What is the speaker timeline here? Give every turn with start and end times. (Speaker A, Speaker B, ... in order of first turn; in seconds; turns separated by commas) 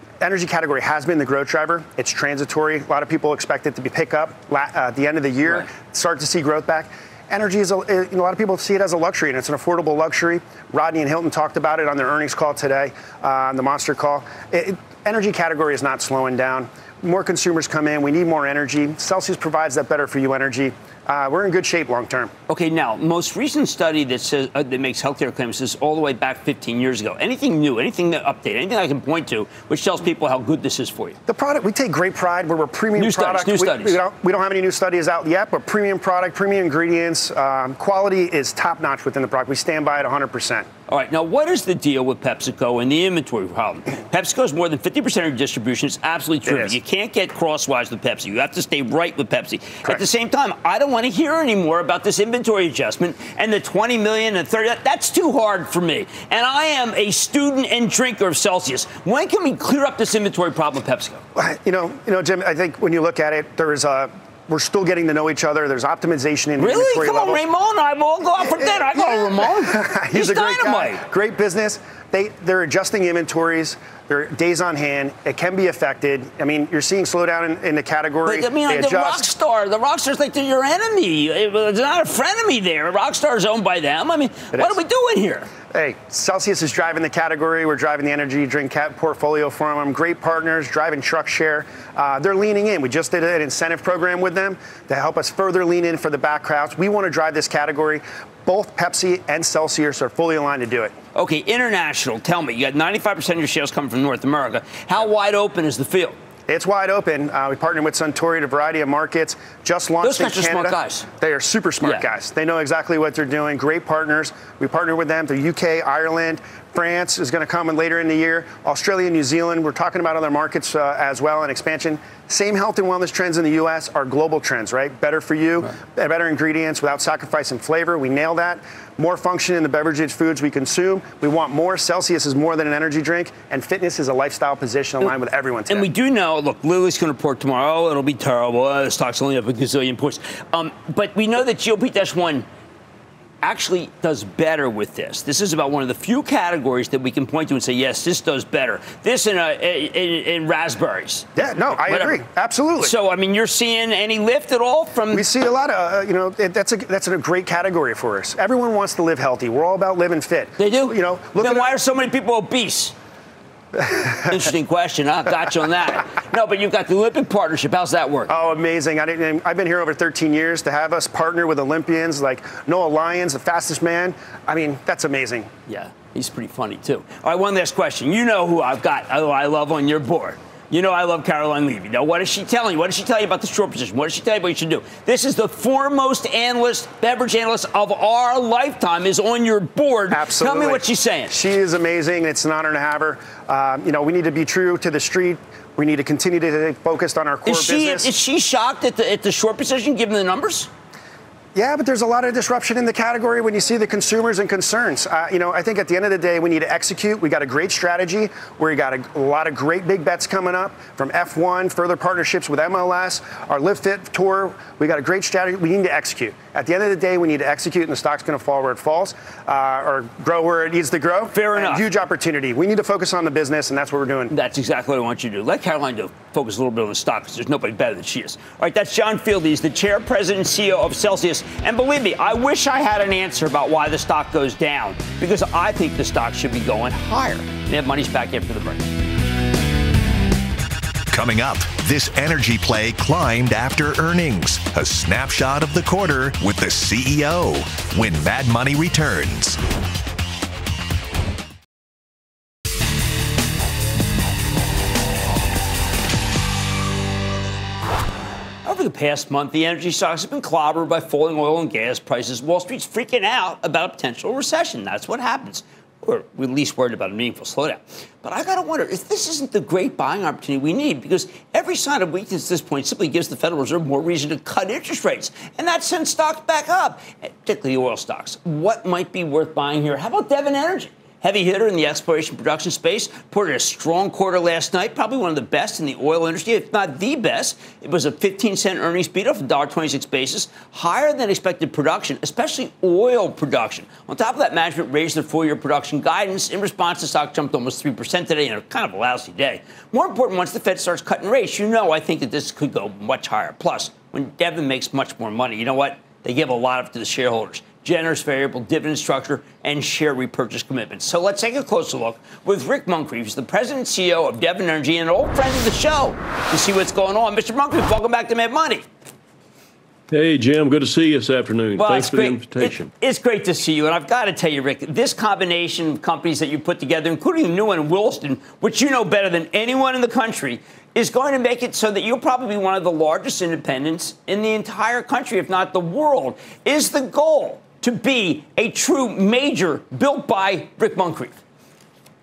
Speaker A: 0.2-22.3, Speaker B: 22.5-31.2, Speaker A: 31.3-40.7, Speaker B: 33.0-34.0, Speaker B: 40.9-61.2, Speaker A: 46.5-46.7, Speaker A: 61.4-67.4, Speaker B: 66.6-71.0, Speaker A: 68.4-79.3, Speaker B: 78.2-85.5, Speaker A: 84.5-84.8, Speaker A: 85.7-100.9, Speaker B: 101.1-106.2, Speaker A: 106.5-135.9, Speaker B: 110.0-111.1, Speaker B: 135.7-142.4, Speaker B: 143.4-152.2, Speaker A: 151.3-152.9, Speaker B: 152.8-155.2, Speaker A: 155.1-161.7, Speaker B: 160.6-162.9, Speaker A: 163.7-164.4, Speaker B: 164.3-168.3, Speaker A: 168.3-175.5, Speaker B: 175.7-191.3, Speaker A: 190.1-198.1, Speaker B: 197.4-200.7, Speaker A: 201.5-224.3, Speaker B: 221.3-221.8, Speaker B: 224.3-238.8, Speaker C: 241.1-249.6, Speaker B: 258.6-318.8, Speaker D: 320.1-322.9, Speaker B: 321.8-341.3